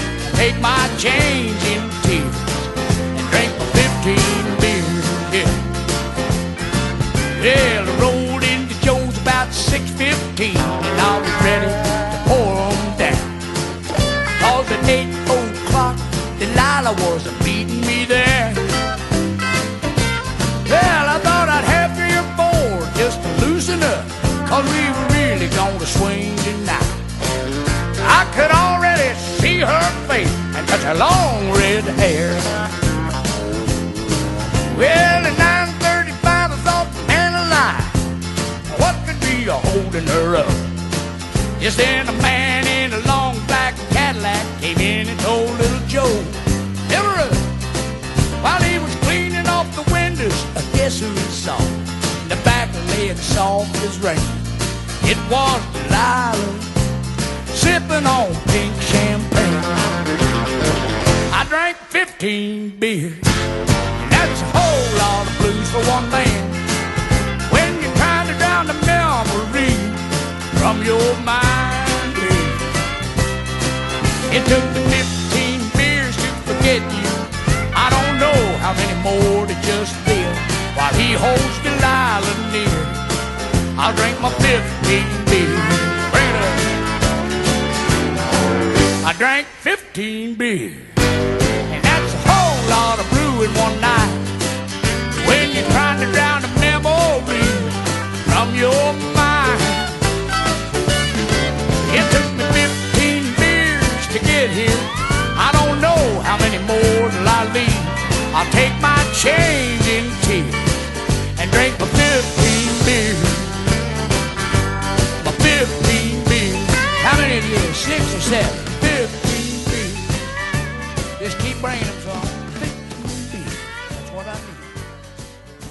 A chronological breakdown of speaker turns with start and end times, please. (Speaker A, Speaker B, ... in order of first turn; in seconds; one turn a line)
Speaker A: 0.3-5.6
Speaker A: 7.3-13.3
Speaker A: 14.4-18.7
Speaker A: 20.6-26.9
Speaker A: 28.0-32.6
Speaker A: 34.7-38.0
Speaker A: 38.7-40.7
Speaker A: 41.6-47.5
Speaker A: 48.4-54.5
Speaker A: 55.0-56.7
Speaker A: 57.5-59.7
Speaker A: 61.3-63.2
Speaker A: 64.0-66.6
Speaker A: 67.5-72.7
Speaker A: 74.3-83.0
Speaker A: 83.8-86.7
Speaker A: 89.0-90.8
Speaker A: 91.7-94.2
Speaker A: 95.2-99.9
Speaker A: 101.8-110.7
Speaker A: 111.4-113.6
Speaker A: 115.2-120.2
Speaker A: 121.2-124.7